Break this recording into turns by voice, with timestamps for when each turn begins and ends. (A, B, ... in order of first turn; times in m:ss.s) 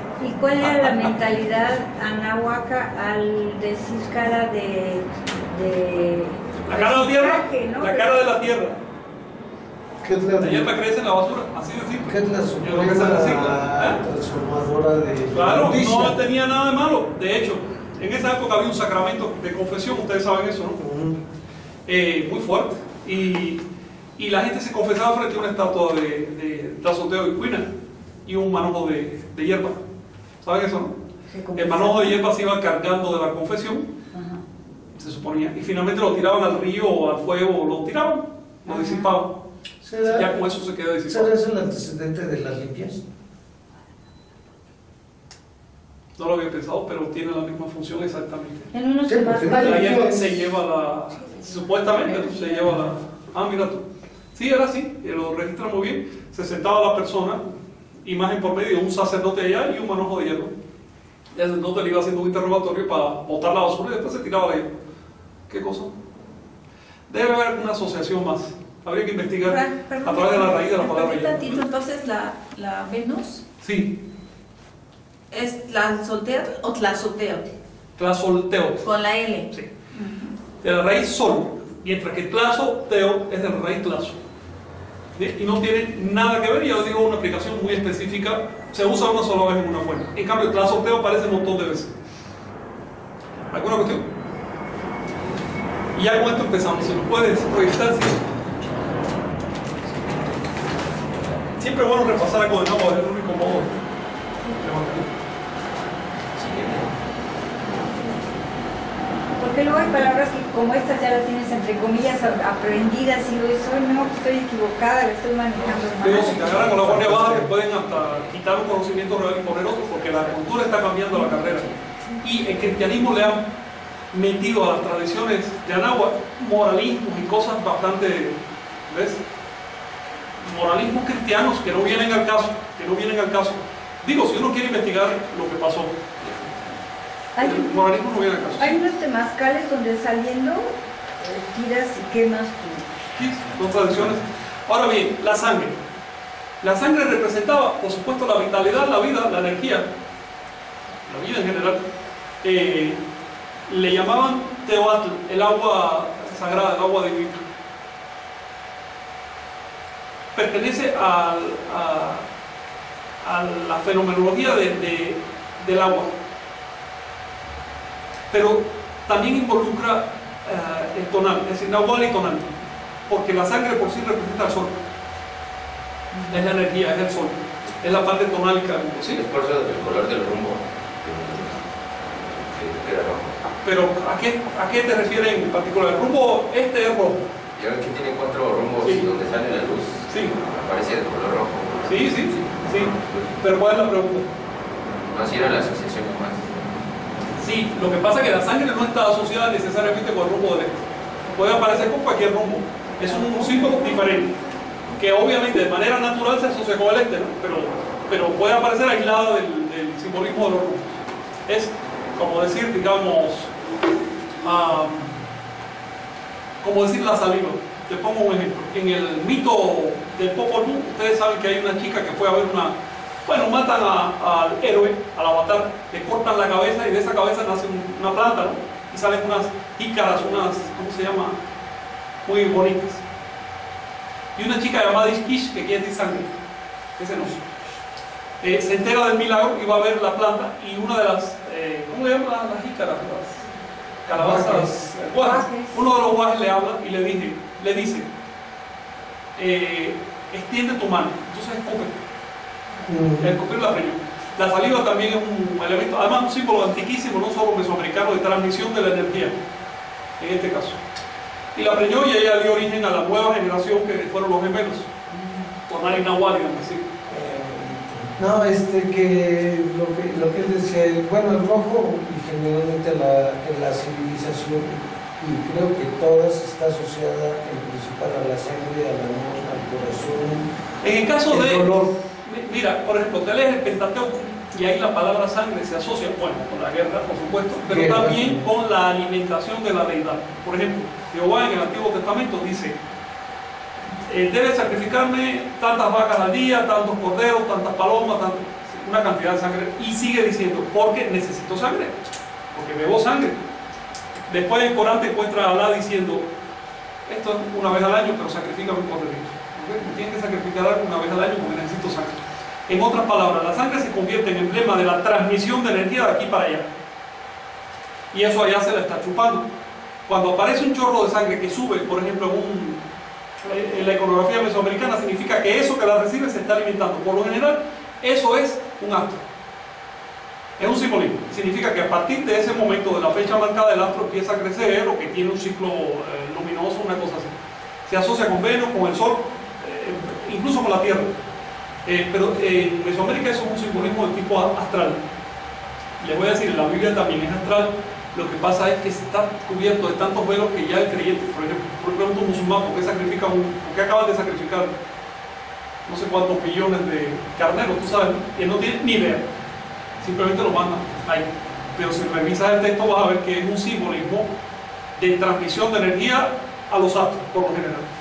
0:00.2-0:08.2 A
0:00.6-0:01.0 B
0:06.6-0:08.8 B
0:10.0-0:10.7 C
0:10.4-0:14.0 B
0:12.1-0:16.2 C
0:15.3-0:20.8 B
0:20.8-0:21.2 C
0:21.8-0:23.6 B
0:24.2-0:27.7 B
0:28.2-0:29.8 B
0:30.4-0:30.9 B
0:31.3-0:32.2 A
0:31.5-0:33.9 B
0:34.1-0:34.4 A
0:35.0-0:39.4 B
0:38.7-0:39.1 A
0:39.8-0:40.4 C
0:40.0-0:41.3 B
0:41.1-0:43.1 C
0:46.2-0:48.7 B
0:48.7-0:50.2 A
0:49.0-0:50.4 C
0:49.4-0:57.4 B
0:51.5-0:52.9 A
0:58.0-1:00.5 B
1:01.3-1:04.7 B
1:05.5-1:06.0 B
1:07.1-1:11.6 B
1:09.4-1:13.4 D
1:13.6-1:14.0 B
1:15.3-1:17.5 D
1:18.0-1:18.9 B
1:18.8-1:19.5 D
1:20.0-1:20.3 A
1:20.6-1:24.2 B
1:25.2-1:31.9 B
1:33.5-1:34.1 B
1:35.9-1:38.2 B
1:41.0-1:41.5 E
1:41.6-1:43.8 B
1:44.6-1:45.1 B
1:46.3-1:46.9 E
1:49.4-1:56.6 A
1:55.5-2:01.0 E
1:56.0-2:01.7 B
1:56.5-1:57.5 C
2:02.2-2:03.5 B
2:04.1-2:09.2 B
2:10.4-2:16.0 B
2:16.2-2:16.6 E
2:17.3-2:17.8 A
2:17.4-2:18.8 B
2:18.6-2:22.9 A
2:23.1-2:25.8 B
2:26.6-2:29.9 B
2:31.0-2:31.8 B
2:32.4-2:33.0 B
2:33.7-2:37.5 B
2:40.3-2:42.2 B
2:43.2-2:46.1 B
2:48.3-2:52.5 B
2:53.1-2:54.8 B
2:56.1-2:56.5 A
2:56.3-2:59.2 B
2:59.1-3:01.6 E
3:02.4-3:03.4 E
3:03.6-3:07.2 B
3:07.6-3:12.6 E
3:08.8-3:09.1 B
3:10.1-3:10.4 B
3:11.8-3:14.3 B
3:15.1-3:16.5 E
3:17.4-3:24.4 B
3:23.0-3:24.2 A
3:25.0-3:33.5 B
3:34.4-3:35.1 B
3:36.6-3:51.4 B
3:52.2-3:53.0 B
3:54.4-3:56.3 B
3:57.0-3:57.4 B
3:58.4-4:03.4 B
4:04.0-4:08.1 B
4:04.1-4:05.0 C
4:05.2-4:05.8 A
4:09.4-4:12.0 B
4:12.8-4:13.4 C
4:13.2-4:19.4 B
4:20.2-4:20.8 B
4:21.5-4:24.9 B
4:25.1-4:25.5 A
4:25.7-4:26.9 B
4:27.1-4:40.5 C
4:40.8-4:52.8 B
4:41.3-4:41.8 C
4:47.6-4:48.5 C
4:54.0-5:01.9 B
5:02.5-5:03.4 B
5:04.3-5:06.3 B
5:07.0-5:16.7 B
5:18.1-5:19.5 B
5:20.1-5:22.8 B
5:23.4-5:29.2 B
5:30.6-5:37.3 B
5:37.8-5:41.1 B
5:41.8-5:45.0 B
5:46.0-5:54.7 B
5:55.8-5:59.2 B
6:00.0-6:04.3 B
6:05.0-6:07.9 B